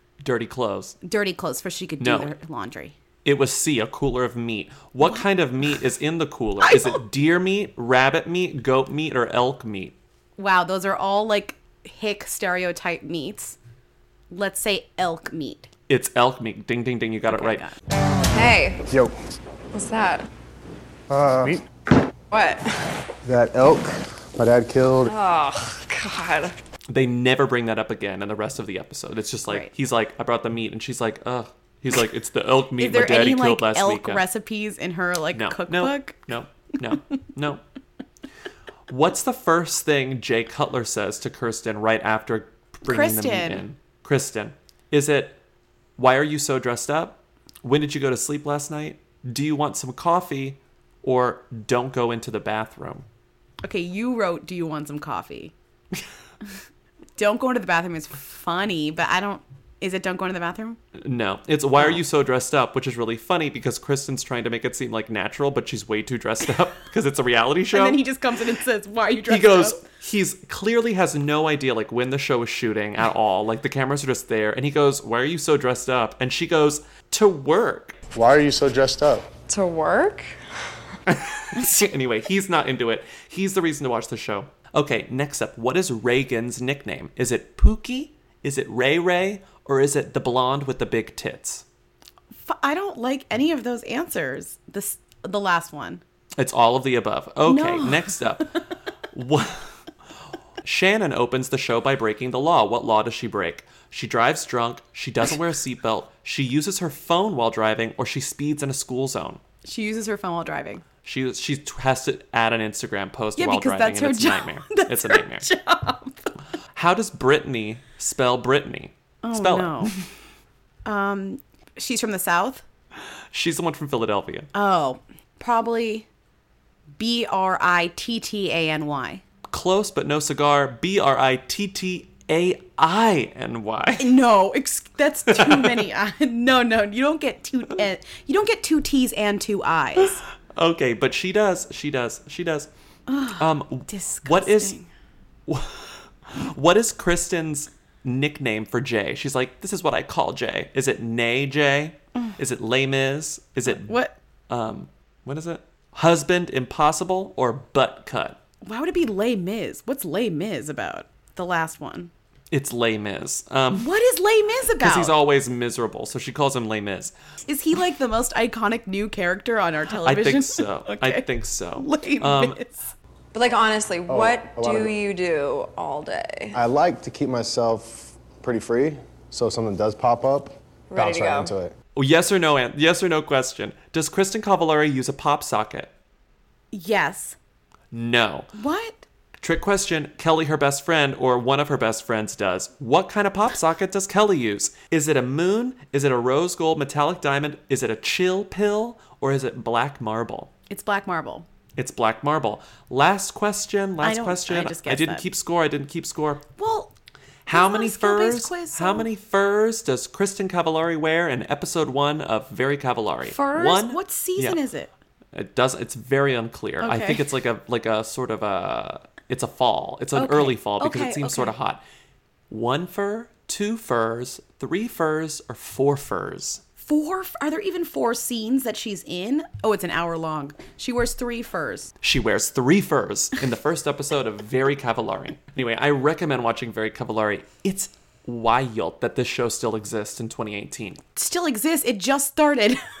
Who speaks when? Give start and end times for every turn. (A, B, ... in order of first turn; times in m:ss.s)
0:00.2-0:01.0 A
0:01.0-0:02.9 B
0:02.0-0:02.3 A
0:03.2-0:10.0 A
0:06.6-0:07.0 B
0:10.4-0:13.6 B
0:14.3-0:15.7 B
0:15.9-0:17.6 A
0:17.3-0:17.8 B
0:18.2-0:18.9 C
0:18.9-0:19.2 D
0:19.7-0:20.3 C
0:21.1-0:21.6 D
0:22.3-0:23.0 C
0:23.2-0:25.1 D
0:25.0-0:26.6 C
0:26.9-0:34.2 A
0:32.8-0:36.2 B
0:35.3-0:37.6 A
0:38.9-0:45.4 A
0:42.8-0:43.6 B
0:46.0-0:53.0 A
0:53.6-0:55.5 B
0:57.2-1:00.8 B
1:00.9-1:08.0 A
1:07.7-1:09.8 B
1:09.3-1:18.0 A
1:18.1-1:19.3 D
1:19.5-1:20.4 C
1:21.1-1:31.6 A
1:32.4-1:36.0 B
1:36.4-1:39.9 A
1:37.4-1:38.3 B
1:40.6-1:49.4 A
1:49.6-1:50.8 B
1:51.0-1:55.5 A
1:53.4-1:56.3 B
1:56.7-2:00.1 A
1:59.2-2:00.0 B
2:00.8-2:02.6 B
2:03.3-2:04.5 A
2:04.5-2:06.1 B
2:07.0-2:09.2 B
2:09.5-2:14.1 A
2:14.0-2:20.2 B
2:15.3-2:15.8 A
2:20.0-2:22.7 A
2:23.1-2:24.9 B
2:23.3-2:24.8 A
2:25.5-2:34.0 A
2:33.7-2:34.2 B
2:34.5-2:38.4 A
2:38.6-2:42.1 B
2:42.5-2:43.9 A
2:43.7-2:45.1 B
2:44.8-2:47.1 A
2:47.5-2:52.9 B
2:50.0-2:52.6 A
2:53.3-2:56.6 C
2:54.1-2:54.9 D
2:56.5-3:01.7 D
3:00.9-3:01.5 C
3:01.9-3:05.9 A
3:06.7-3:07.4 B
3:07.9-3:08.5 A
3:08.5-3:09.0 B
3:09.4-3:20.5 A
3:20.7-3:21.4 B
3:21.8-3:26.4 A
3:24.0-3:25.3 B
3:26.6-3:26.9 B
3:27.4-3:34.6 A
3:27.5-3:29.1 B
3:33.3-3:34.9 B
3:35.3-3:41.8 A
3:36.8-3:37.2 B
3:40.2-3:41.5 B
3:42.5-3:46.6 A
3:46.8-3:51.9 B
3:52.0-4:01.0 A
4:01.2-4:02.8 B